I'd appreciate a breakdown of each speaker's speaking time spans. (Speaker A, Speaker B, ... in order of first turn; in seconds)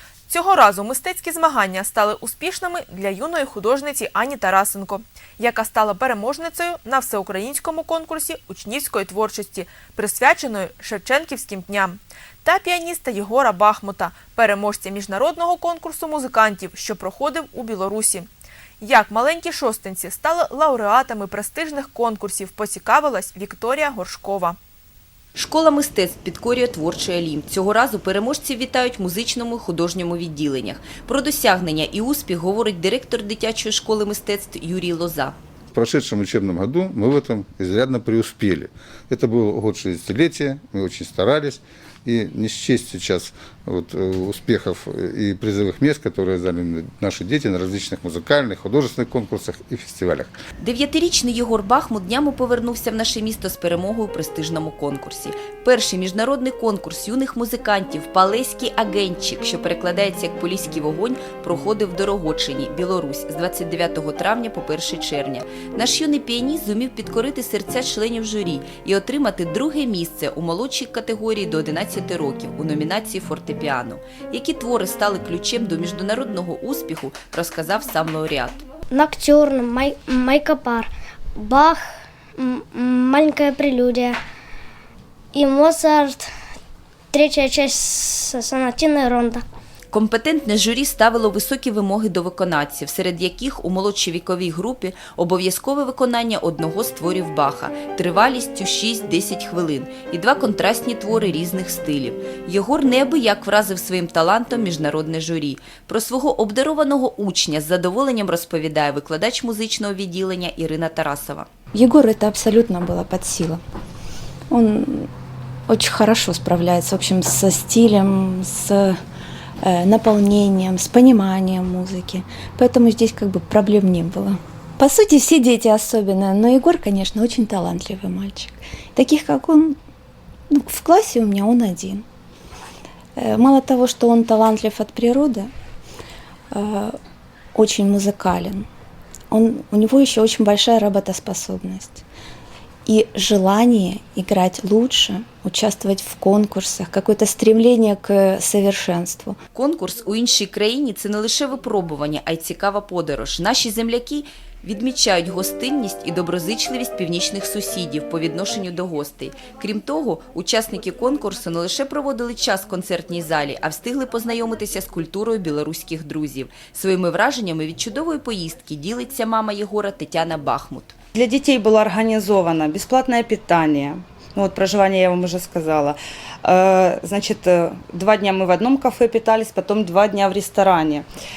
Speaker A: 0.3-18.3, 18.8-24.6
Speaker B: 25.4-35.4, 50.6-78.6, 89.9-111.5, 149.5-170.9
Speaker C: 35.7-50.3
Speaker D: 78.9-84.2, 85.3-86.3, 87.1-89.4
Speaker E: 111.7-113.6, 114.5-115.1, 115.7-119.0, 119.6-129.8, 130.5-132.0, 133.2-135.5, 136.5-136.9, 137.6-138.7, 139.3-142.0, 142.8-149.4
Speaker F: 171.1-181.1